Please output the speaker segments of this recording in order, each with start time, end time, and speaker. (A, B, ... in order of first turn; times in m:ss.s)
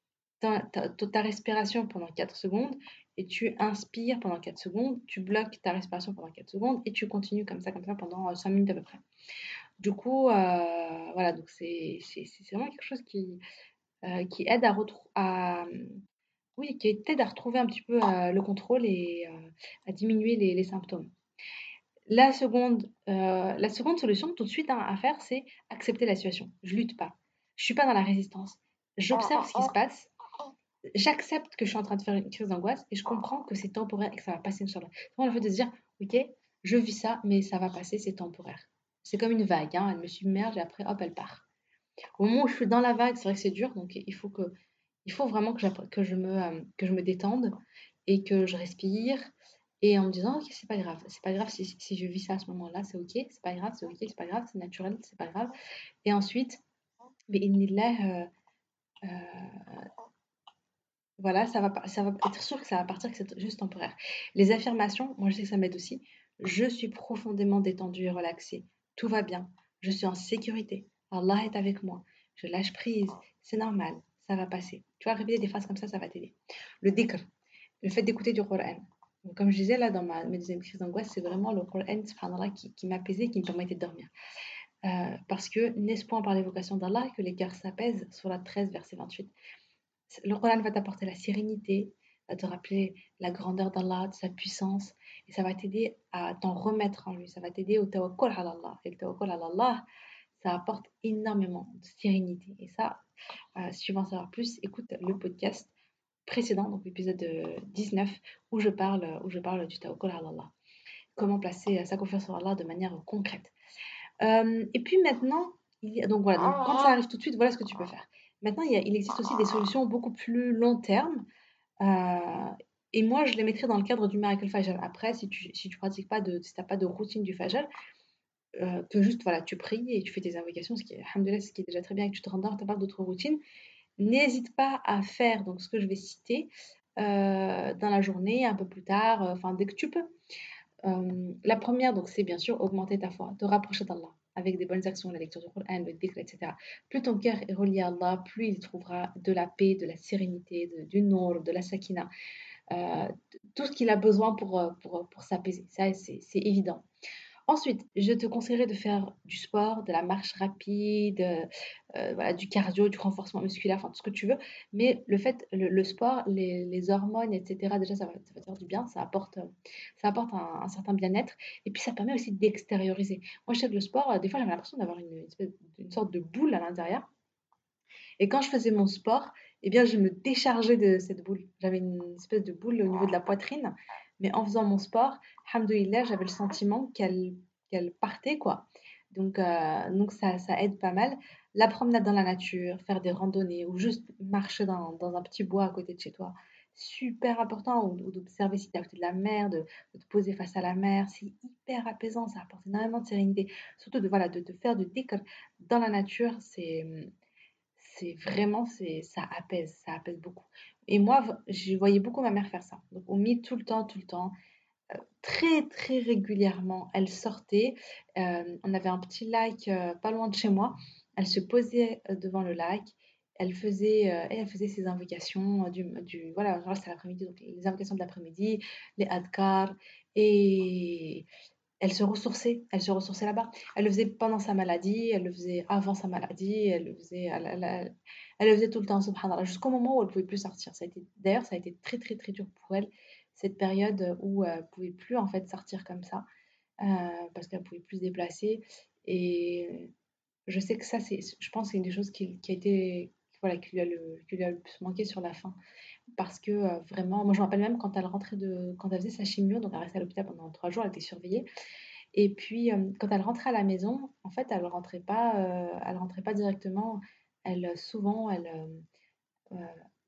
0:00.4-0:09.0 A
0:09.8-0:13.4 A
0:14.0-0:16.0 A
0:16.6-0:21.1 A
0:22.1-0:30.1 A
0:31.0-0:41.5 A
0:42.2-0:44.5 A
0:45.0-0:47.5 A
0:48.1-0:49.2 A
0:49.8-0:55.5 A
0:56.0-0:56.6 A
0:57.3-0:58.3 A
0:59.0-0:59.9 A
1:01.2-1:17.3 A
1:17.8-1:24.1 A
1:24.8-1:29.3 A
1:30.1-1:39.8 A
1:40.4-1:43.0 A
1:43.6-1:45.7 A
1:46.3-1:50.5 A
1:51.2-1:53.5 A
1:54.2-2:01.2 A
2:01.8-2:07.7 A
2:08.6-2:13.4 A
2:14.0-2:20.1 A
2:20.8-2:32.1 A
2:32.7-2:36.8 A
2:37.5-2:57.1 A
2:58.2-3:27.1 A
3:27.8-3:34.4 A
3:35.0-3:51.3 A
3:51.8-4:06.2 A
4:06.8-4:09.9 A
4:10.5-4:15.6 A
4:16.2-4:21.5 A
4:22.2-4:28.8 A
4:29.5-4:29.8 A